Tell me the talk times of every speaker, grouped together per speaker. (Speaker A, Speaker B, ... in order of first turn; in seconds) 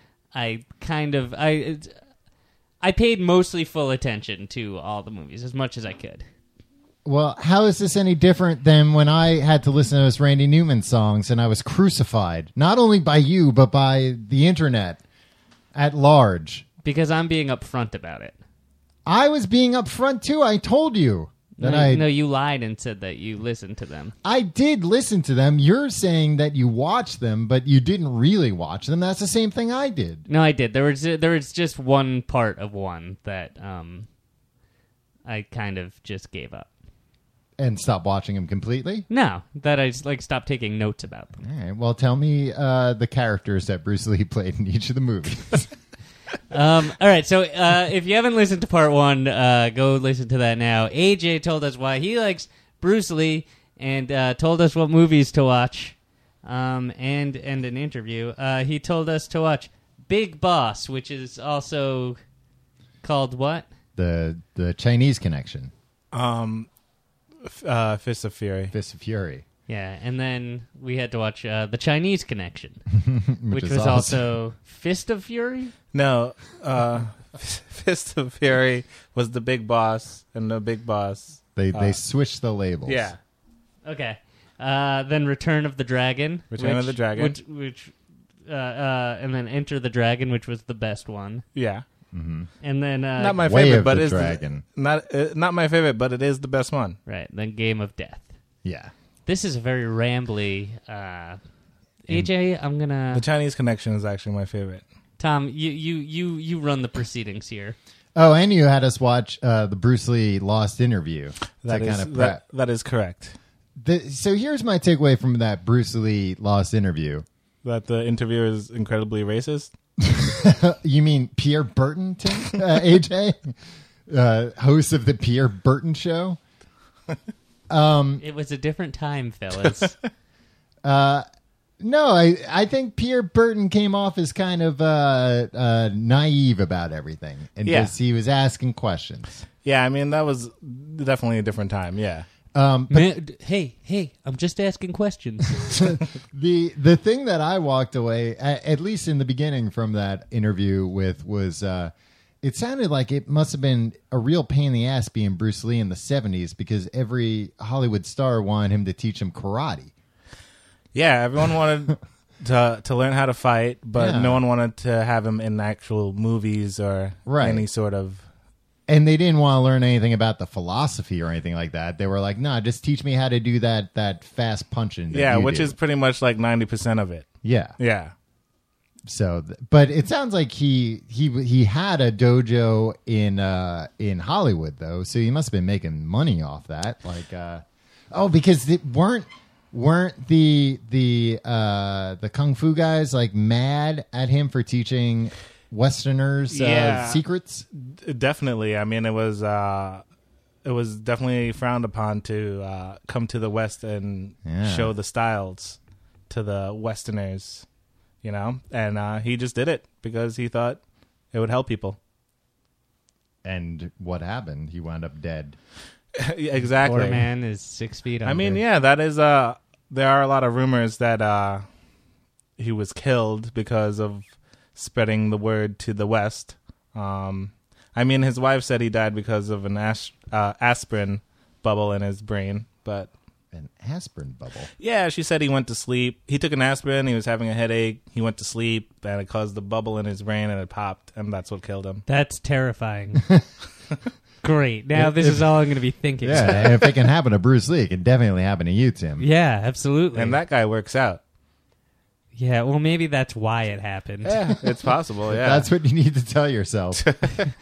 Speaker A: 0.3-1.9, 2.8-6.2, 16.8-18.3, 21.6-24.1, 30.3-34.1, 35.2-36.7, 39.1-41.4, 46.5-62.2, 63.0-63.6, 69.7-72.8, 73.5-75.7, 83.8-87.9, 88.5-91.4, 92.6-93.4, 97.0-98.3, 99.2-101.4, 102.0-103.2, 105.2-107.8, 128.2-129.9, 142.9-145.8, 216.8-218.6, 242.1-243.2, 244.4-246.8, 249.2-250.4, 252.3-254.4
Speaker B: 7.0-15.0, 15.7-16.6, 19.1-22.0, 24.2-30.3, 37.6-39.0, 41.4-45.7, 64.0-65.7, 68.7-69.4, 73.0-74.2, 81.5-83.1, 92.1-92.5, 93.4-94.6, 98.6-98.9, 108.1-112.4, 113.8-117.2, 120.0-123.5, 124.1-126.4, 127.7-128.2, 130.8-131.2, 131.8-139.4, 142.5-143.1, 145.6-159.9, 163.9-164.4, 167.2-167.6, 168.9-175.8, 177.4-177.8, 179.1-197.7, 204.4-204.9, 213.4-215.6, 233.5-234.7, 244.9-245.6, 246.2-249.2, 254.2-254.6, 255.3-257.1
Speaker C: 66.1-66.7, 67.4-68.7, 75.9-82.0, 82.8-83.2, 86.5-87.4, 91.5-91.8, 93.2-97.0, 103.1-104.8, 111.6-113.3, 117.6-119.7, 137.6-137.9, 139.6-142.3, 160.9-168.2, 175.1-178.1, 196.5-197.2, 197.8-200.0, 200.6-205.8, 206.3-207.7, 208.2-210.8, 211.3-212.0, 216.2-217.3, 218.2-221.6, 222.6-233.1, 234.8-242.0, 250.1-251.2, 254.5-255.7, 257.0-257.4